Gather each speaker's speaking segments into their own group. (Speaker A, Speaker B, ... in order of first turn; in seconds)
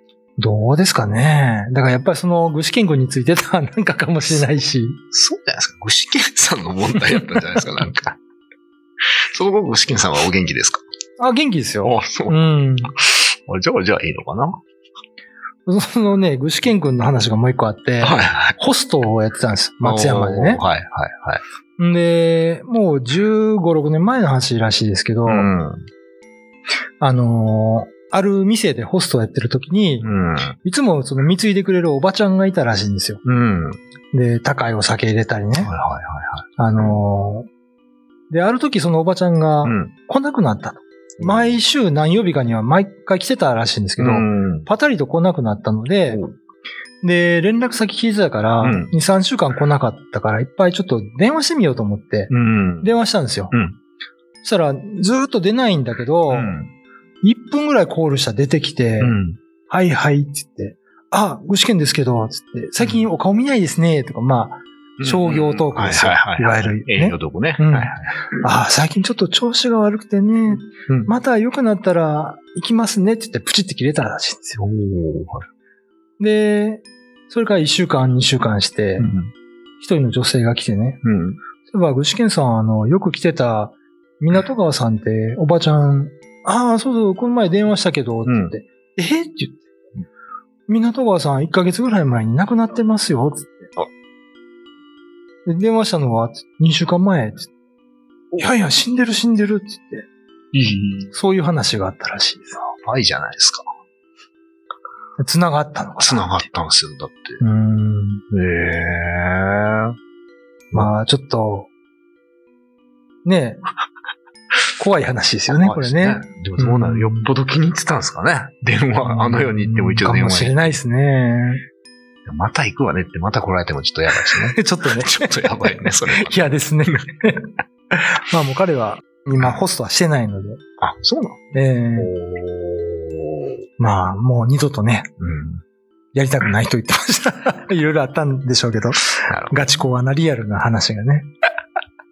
Speaker A: 0.4-5.0, 11.2-12.9, 15.7-20.6, 21.8-25.5, 27.0-30.1, 30.6-33.2, 34.1-35.7, 36.6-37.5, 38.3-46.2, 47.0-53.5, 54.4-56.6, 57.2-59.1, 59.7-74.6, 76.2-79.1, 79.8-81.0, 81.7-89.7, 90.7-93.7, 95.5-97.5, 98.4-100.1, 101.1-102.7, 105.2-106.3, 107.4-108.2, 110.7-111.7, 113.2-113.6, 114.8-117.2, 119.0-121.6, 124.3-130.6, 131.5-132.1, 133.8-135.1, 136.1-141.3
Speaker B: 5.1-8.2, 9.3-10.8, 11.8-12.4, 13.0-14.6, 18.0-18.6, 19.8-21.4, 25.2-25.8, 30.0-30.6, 33.2-33.8, 35.6-36.5, 39.6-39.9, 41.2-41.6, 44.0-44.7, 46.1-46.4, 48.6-48.9, 52.3-52.9, 53.5-53.8, 56.3-56.7, 59.0-59.4, 62.8-63.0, 65.0-68.2, 74.5-75.5, 79.0-79.3, 81.0-81.4, 88.2-88.5, 100.5-101.1, 102.8-103.6, 106.0-107.4, 108.3-110.0, 115.5-120.6, 122.2-127.0, 130.8-131.4, 131.9-133.6, 135.2-135.6, 139.3-139.6